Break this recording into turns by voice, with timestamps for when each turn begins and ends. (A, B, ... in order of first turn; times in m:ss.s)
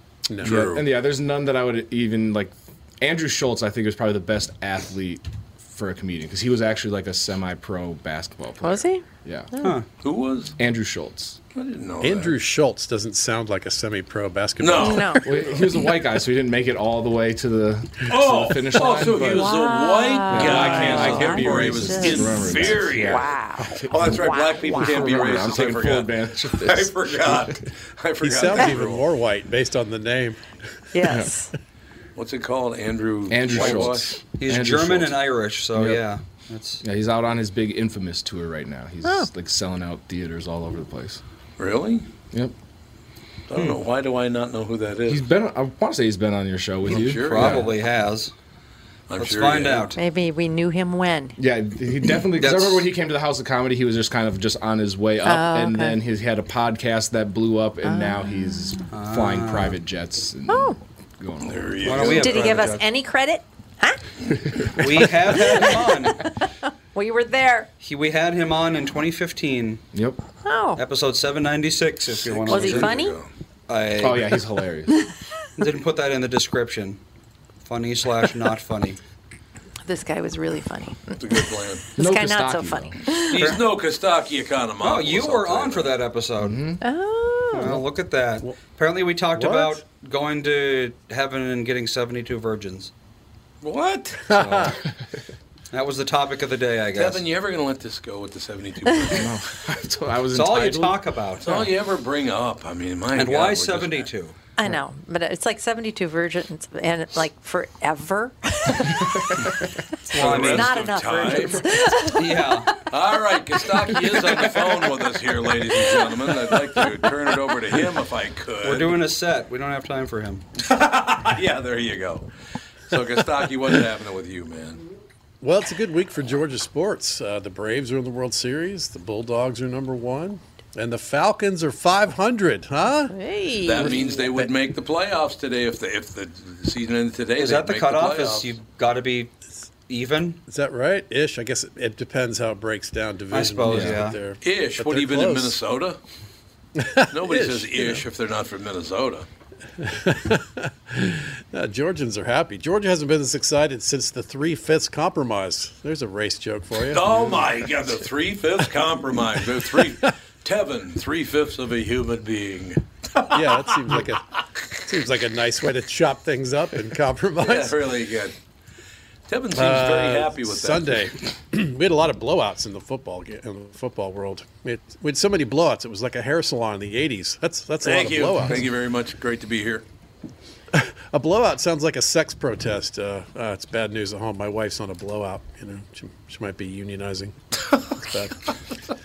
0:00.4-0:00.9 A
0:00.4-0:09.5 B
0:08.6-0:09.8 C
0:09.6-0:09.9 D
0:10.0-0:10.6 A
0:10.6-0:11.4 B
0:11.6-0:12.4 A
0:12.0-0:15.2 E
0:14.6-0:15.6 A
0:14.8-0:15.2 C
0:15.2-0:19.6 B
0:18.1-0:23.4 A
0:19.3-0:25.2 C
0:20.3-0:27.6 B
0:23.9-0:29.0 A
0:28.2-0:30.4 E
0:30.9-0:31.5 C
0:32.2-0:34.2 A
0:33.3-0:35.2 B
0:33.6-0:33.9 D
0:34.4-0:36.8 D
0:35.7-0:36.0 B
0:36.8-0:41.2 B
0:39.0-0:39.3 C
0:41.6-0:42.1 A
0:43.5-0:45.3 A
0:45.1-0:47.7 B
0:46.9-0:47.7 A
0:46.9-0:48.3 D
0:49.1-0:49.9 A
0:49.2-0:50.0 D
0:50.0-0:51.4 C
0:51.4-1:02.3 B
0:52.4-0:52.9 D
0:55.2-0:56.0 C
0:57.8-0:58.7 C
0:58.9-0:59.8 D
1:00.5-1:00.8 C
1:01.4-1:02.6 A
1:01.8-1:02.9 D
1:02.0-1:04.0 C
1:04.6-1:05.0 B
1:04.8-1:06.3 D
1:05.4-1:05.7 C
1:06.9-1:07.7 C
1:07.8-1:09.8 D
1:09.9-1:10.2 B
1:10.4-1:10.8 C
1:10.8-1:13.0 D
1:12.1-1:13.3 A
1:12.5-1:13.2 C
1:13.7-1:14.4 D
1:14.0-1:15.0 B
1:15.6-1:17.0 D
1:17.6-1:19.0 D
1:19.9-1:21.2 C
1:21.2-1:21.8 A
1:22.0-1:23.4 C
1:22.0-1:23.0 B
1:23.1-1:26.0 A
1:23.4-1:23.6 D
1:24.8-1:26.6 D
1:26.4-1:26.8 B
1:26.8-1:27.7 C
1:27.5-1:32.9 D
1:29.3-1:29.8 E
1:33.6-1:34.2 A
1:34.3-1:34.8 E
1:34.3-1:35.0 B
1:35.7-1:37.2 D
1:37.0-1:39.3 A
1:39.1-1:41.6 B
1:40.3-1:41.7 D
1:41.4-1:44.1 A
1:43.2-1:44.4 D
1:44.6-1:49.5 C
1:49.0-1:49.5 B
1:50.1-1:52.8 C
1:50.1-1:50.8 D
1:50.1-1:51.6 A
1:52.1-1:52.8 D
1:52.9-1:59.0 A
1:58.6-2:00.4 D
2:00.6-2:02.3 A
2:02.9-2:04.8 A
2:05.4-2:13.1 E
2:13.1-2:13.9 C
2:13.6-2:18.5 A
2:13.8-2:14.5 E
2:17.4-2:19.3 D
2:19.9-2:20.4 D
2:20.5-2:25.6 E
2:23.3-2:24.2 D
2:23.7-2:24.0 B
2:24.4-2:26.0 A
2:26.8-2:28.0 E
2:27.1-2:29.3 A
2:29.8-2:37.4 E
2:36.9-2:44.0 A
2:39.6-2:40.1 E
2:43.3-2:47.8 E
2:47.4-2:48.4 A
2:49.3-2:51.0 A
2:49.5-2:58.6 E
2:57.8-2:59.8 A
3:00.7-3:07.3 E
3:08.1-3:08.5 E